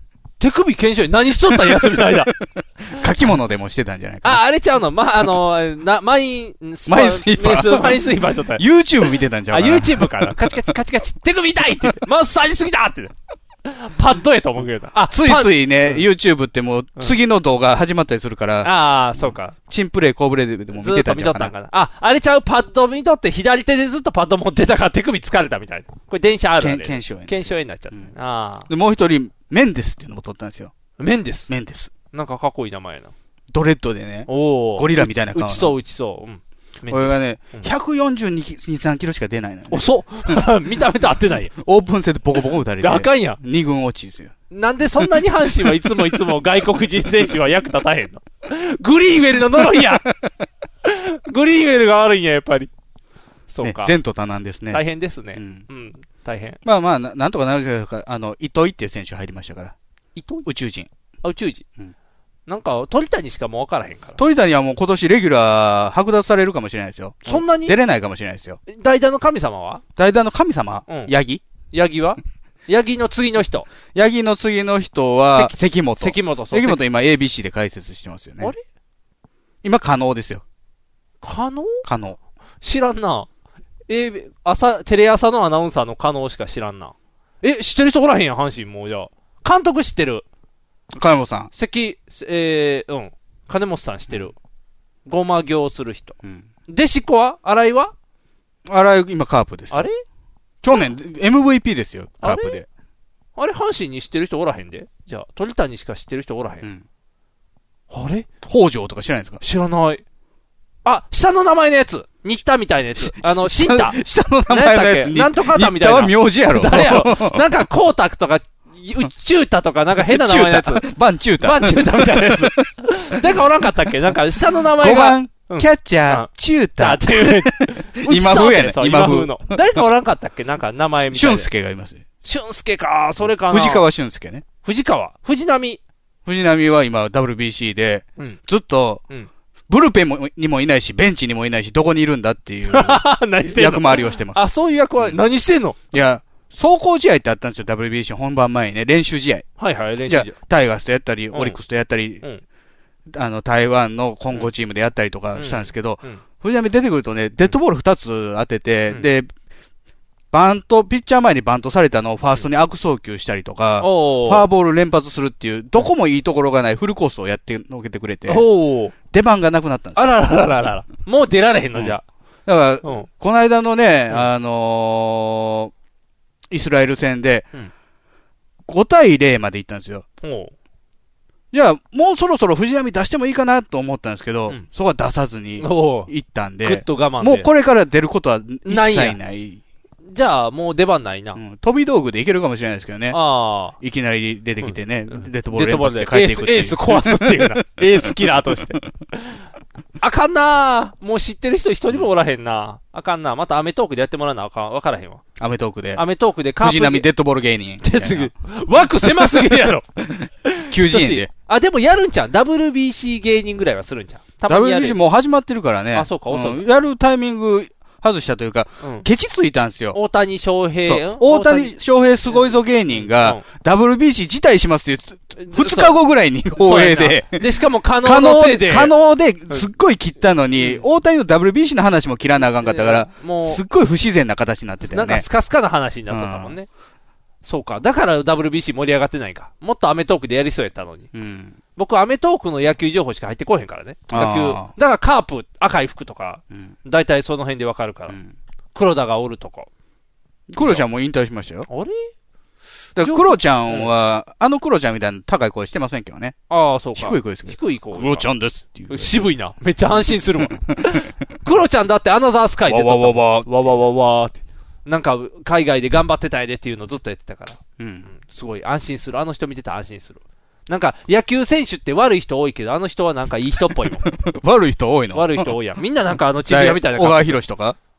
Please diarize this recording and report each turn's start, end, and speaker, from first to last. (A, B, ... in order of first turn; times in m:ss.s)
0:00.4-0:02.3 A
0:01.5-0:04.4 B
0:04.2-0:08.6 A
0:06.9-0:08.0 B
0:08.6-0:10.7 B
0:09.5-0:13.1 A
0:13.7-0:16.0 A
0:15.1-0:21.5 B
0:18.6-0:19.6 A
0:20.8-0:28.7 A
0:26.6-0:28.1 B
0:28.7-0:30.7 B
0:31.0-0:31.5 A
0:31.5-0:31.9 B
0:32.1-0:33.1 A
0:33.5-0:35.8 B
0:34.3-0:37.7 A
0:36.9-0:40.4 B
0:39.7-0:41.5 A
0:41.6-0:44.3 B
0:42.8-0:43.4 A
0:44.5-0:50.1 A
0:50.8-0:52.7 A
0:53.5-0:54.0 A
0:53.6-0:54.8 B
0:54.7-0:56.6 A
0:55.3-0:55.7 B
0:56.6-0:59.7 B
1:00.2-1:00.5 A
1:00.5-1:00.9 B
1:01.2-1:01.6 A
1:02.5-1:04.2 A
1:04.2-1:08.6 B
1:07.3-1:07.8 A
1:08.7-1:09.8 A
1:10.0-1:11.4 B
1:10.9-1:11.1 A
1:11.7-1:13.7 A
1:13.9-1:18.5 B
1:15.3-1:16.8 A
1:19.6-1:20.4 B
1:21.2-1:21.8 A
1:21.8-1:22.2 B
1:22.6-1:23.3 A
1:23.9-1:30.2 A
1:30.9-1:31.5 B
1:31.6-1:34.3 A
1:35.1-1:36.2 A
1:36.7-1:37.9 A
1:38.7-1:39.9 B
1:39.7-1:40.0 A
1:40.6-1:42.7 B
1:42.2-1:42.6 A
1:43.4-1:46.7 A
1:47.9-1:48.3 A
1:48.4-1:49.4 B
1:49.4-1:50.0 A
1:50.8-2:00.9 A
1:53.0-1:57.4 B
2:00.0-2:03.3 B
2:01.4-2:11.5 A
2:04.6-2:09.6 B
2:11.0-2:12.0 B
2:12.2-2:13.9 A
2:13.2-2:14.4 B
2:14.6-2:15.8 A
2:16.2-2:19.0 B
2:19.7-2:25.2 B
2:22.7-2:25.8 A
2:25.9-2:29.5 B
2:29.6-2:30.4 A
2:30.1-2:32.2 B
2:31.3-2:31.6 A
2:33.1-2:39.3 B
2:35.4-2:36.2 A
2:40.3-2:48.5 B
2:43.8-2:44.5 A
2:48.3-2:49.0 A
2:49.1-2:50.2 B
2:50.0-2:52.0 A
2:52.5-2:55.7 B
2:52.8-2:53.1 A
2:56.5-2:57.5 B
2:58.7-3:00.1 B
3:00.2-3:00.5 A
3:01.5-3:09.6 B
3:05.6-3:06.1 A
3:06.6-3:07.5 A
3:08.6-3:09.2 A
3:10.1-3:11.4 A
3:11.4-3:13.2 B
3:13.1-3:13.8 A
3:13.8-3:18.6 B
3:14.6-3:19.3 A
3:20.0-3:25.2 A
3:25.4-3:26.0 B
3:26.0-3:27.1 A
3:26.6-3:28.3 B
3:27.8-3:29.8 A
3:29.0-3:31.3 B
3:30.4-3:35.0 A
3:34.5-3:40.0 B
3:35.9-3:36.6 A
3:39.9-3:41.8 A
3:40.8-3:47.5 B
3:42.3-3:43.4 A
3:45.4-3:46.0 A
3:46.6-3:49.0 A
3:48.0-3:55.3 B
3:52.6-3:53.6 A
3:54.8-3:56.7 A
3:56.1-3:56.6 B
3:57.4-4:01.1 A
4:01.1-4:01.6 B
4:01.8-4:08.2 A
4:04.1-4:04.7 B
4:08.8-4:09.7 A
4:10.5-4:11.7 B
4:10.6-4:10.8 A
4:11.7-4:12.1 A
4:13.0-4:16.4 B
4:13.0-4:13.9 A
4:16.5-4:18.3 A
4:17.0-4:19.2 B
4:18.9-4:34.0 A
4:20.4-4:20.8 B
4:22.7-4:23.5 B
4:27.8-4:28.1 B
4:33.8-4:35.6 B
4:35.1-4:37.4 A
4:36.5-4:37.8 B